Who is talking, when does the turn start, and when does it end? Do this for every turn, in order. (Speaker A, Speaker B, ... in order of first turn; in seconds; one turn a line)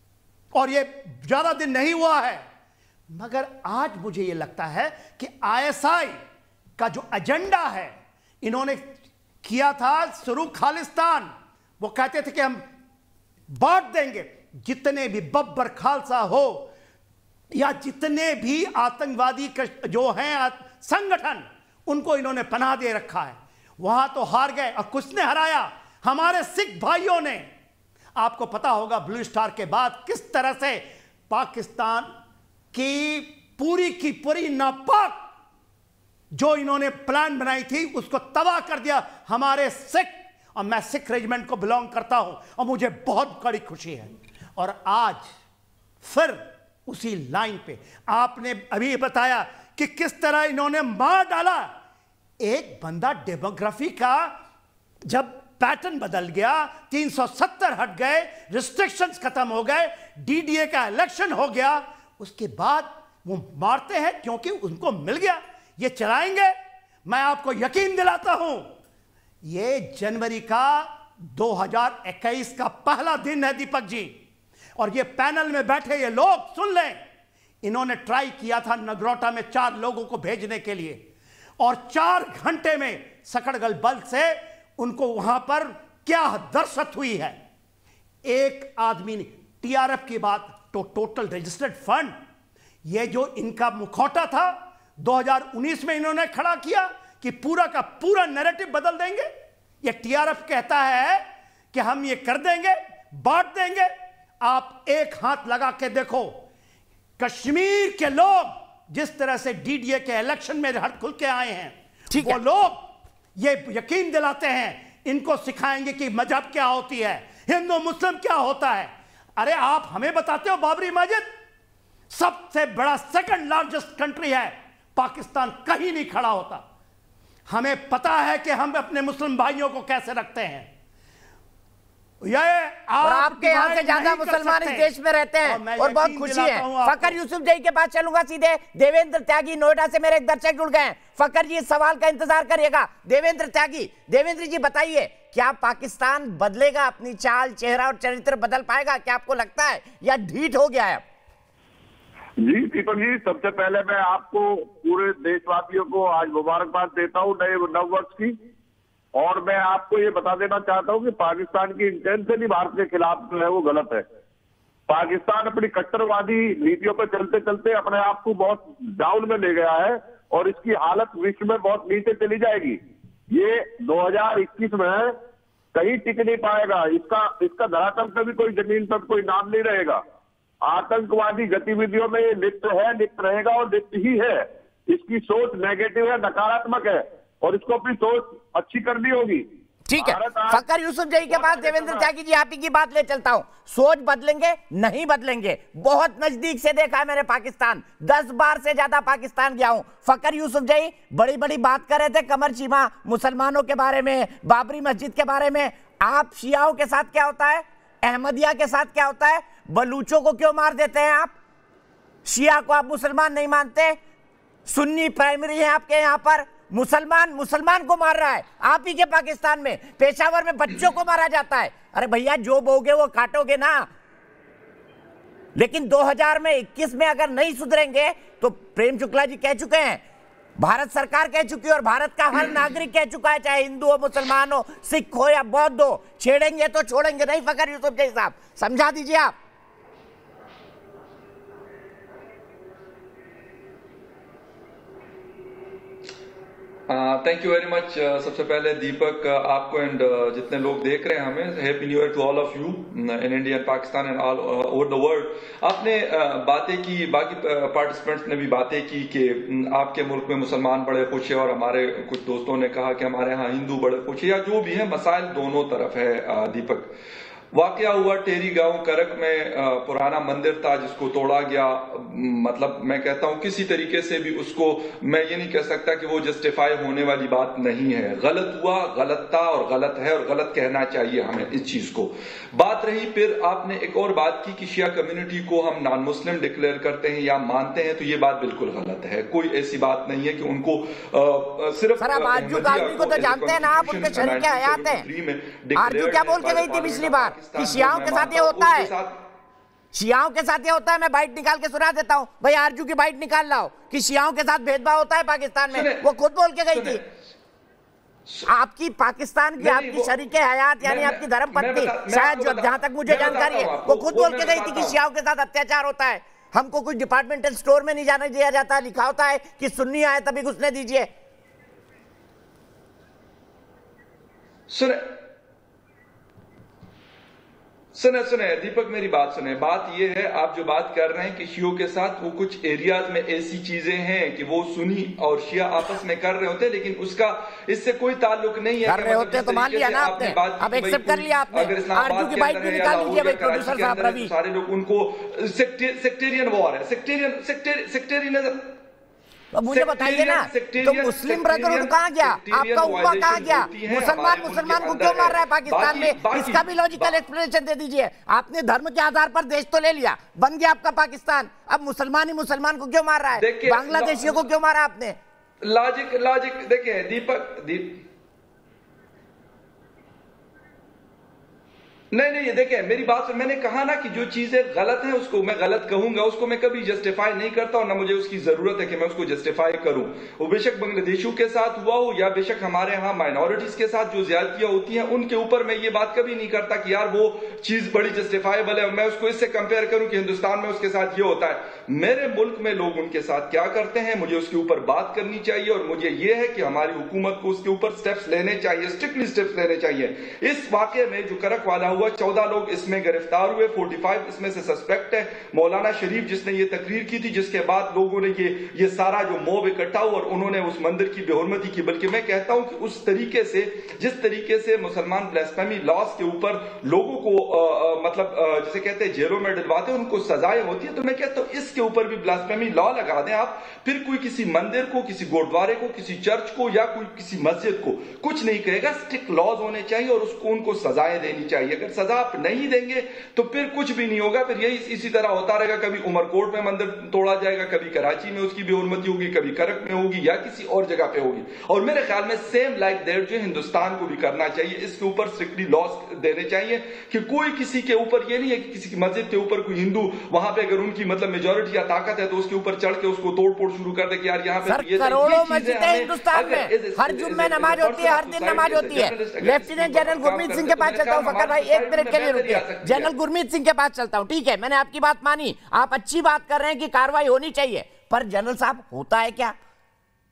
Speaker A: 0.5-2.4
Speaker A: 3.1-6.2
Speaker A: 6.8-8.9
Speaker A: 9.4-12.6
Speaker A: 13.5-16.7
Speaker A: 17.5-27.5
Speaker A: 28.2-32.1
Speaker A: 32.7-35.3
Speaker A: 36.3-45.3
Speaker A: 46.0-51.7
Speaker A: 52.4-54.4
Speaker A: 55.0-68.7
Speaker A: 69.4-74.2
Speaker A: 74.8-77.0
Speaker A: 77.6-81.0
Speaker A: 81.6-87.4
Speaker A: 88.2-92.2
Speaker A: 92.8-99.3
Speaker A: 99.8-106.4
Speaker A: 107.2-121.3
Speaker B: 112.1-112.4
Speaker A: 122.1-126.7
Speaker A: 127.5-130.7
Speaker A: 132.2-134.9
Speaker B: 133.0-151.0
Speaker A: 135.4-137.2
Speaker C: 152.4-158.3
Speaker C: 159.2-164.1
Speaker C: 164.9-172.8
Speaker C: 173.3-175.1
Speaker C: 175.7-180.0
Speaker C: 180.7-190.6
Speaker B: 189.9-211.3
Speaker C: 191.3-192.1
Speaker B: 212.3-214.0
Speaker B: 214.7-223.9
Speaker B: 225.6-230.0
Speaker B: 230.6-239.3
Speaker D: 246.9-266.9
Speaker D: 267.5-299.2
Speaker B: 292.0-295.1
Speaker B: 295.8-298.9
Speaker B: 299.9-307.0
Speaker D: 305.7-306.1
Speaker D: 306.7-307.1
Speaker D: 308.3-308.5
Speaker B: 308.5-321.1
Speaker D: 309.6-310.2
Speaker D: 310.8-315.0
Speaker D: 324.7-325.2
Speaker D: 327.9-348.8
Speaker B: 338.9-344.3
Speaker B: 349.5-365.2
Speaker D: 349.7-357.1
Speaker D: 363.3-364.5
Speaker D: 365.6-368.0
Speaker D: 372.1-463.1
Speaker B: 454.7-469.6